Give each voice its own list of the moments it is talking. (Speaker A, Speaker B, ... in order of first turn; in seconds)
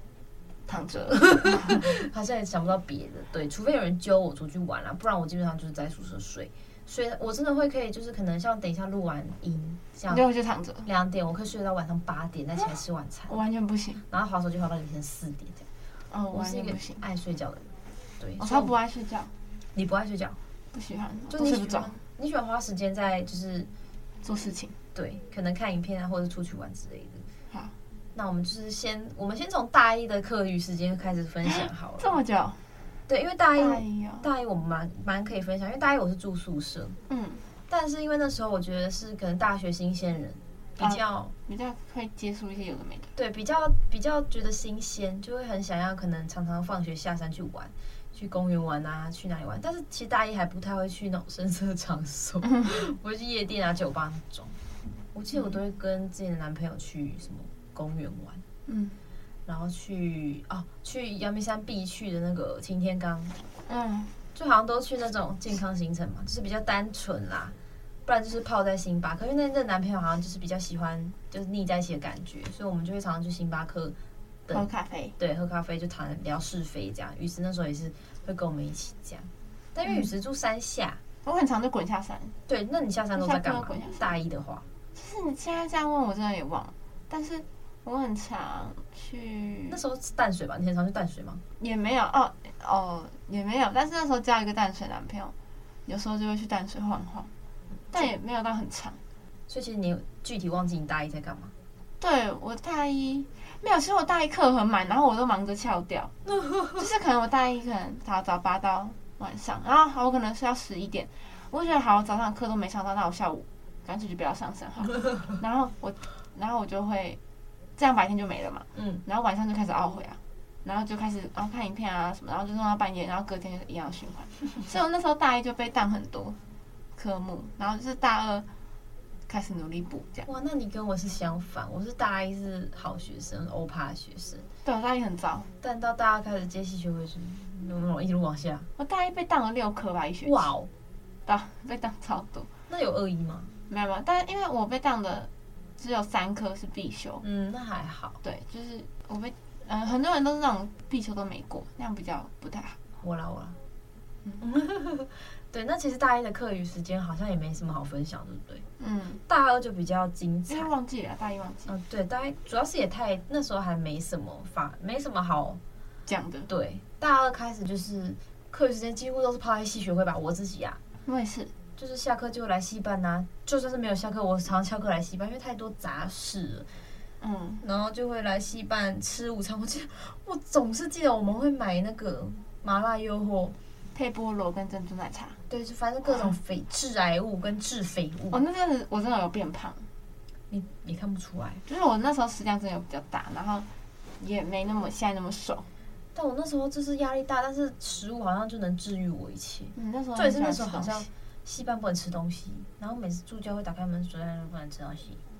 Speaker A: 0.7-2.0, 10.1-10.9, 13.3-14.0, 16.1-17.0, 18.4-19.3, 20.7-22.0, 24.2-24.8, 31.5-32.6, 33.5-34.3, 37.1-37.4, 40.8-43.1, 52.4-52.8, 58.6-59.0, 63.7-64.1, 74.5-75.2, 81.2-82.3, 83.1-84.1, 84.9-89.8, 91.6-95.3, 95.8-97.3, 97.9-99.0, 102.0-106.1, 106.7-117.2, 117.8-126.4, 127.0-128.5, 129.3-130.3, 134.6-135.5, 138.8-140.5, 141.3-142.5, 143.7-147.2, 148.2-152.8, 158.8-159.2, 160.5-161.7, 166.1-166.5, 171.1-171.5, 177.2-177.6, 183.9-185.4, 188.3-189.8, 191.7-193.7, 194.2-195.7, 199.8-201.1
Speaker B: 1.1-10.2, 10.8-13.4, 14.1-15.7, 16.3-17.7, 18.2-18.7, 19.7-20.4, 21.3-23.7, 24.9-27.3, 28.1-32.2, 33.1-37.0, 37.7-41.3, 43.1-54.5, 55.1-58.4, 59.5-63.4, 64.3-67.5, 68.0-73.9, 74.5-81.0, 82.5-84.6, 89.7-91.4, 99.5-101.5, 106.3-106.8, 118.7-119.0, 130.2-134.5, 135.6-138.7, 140.2-140.7, 142.7-143.5, 147.2-148.2, 153.0-153.6, 154.4-158.6, 159.3-160.7, 161.7-165.6, 166.5-170.8, 171.8-176.7, 177.6-183.5, 185.5-188.4, 190.5-191.6, 196.1-205.2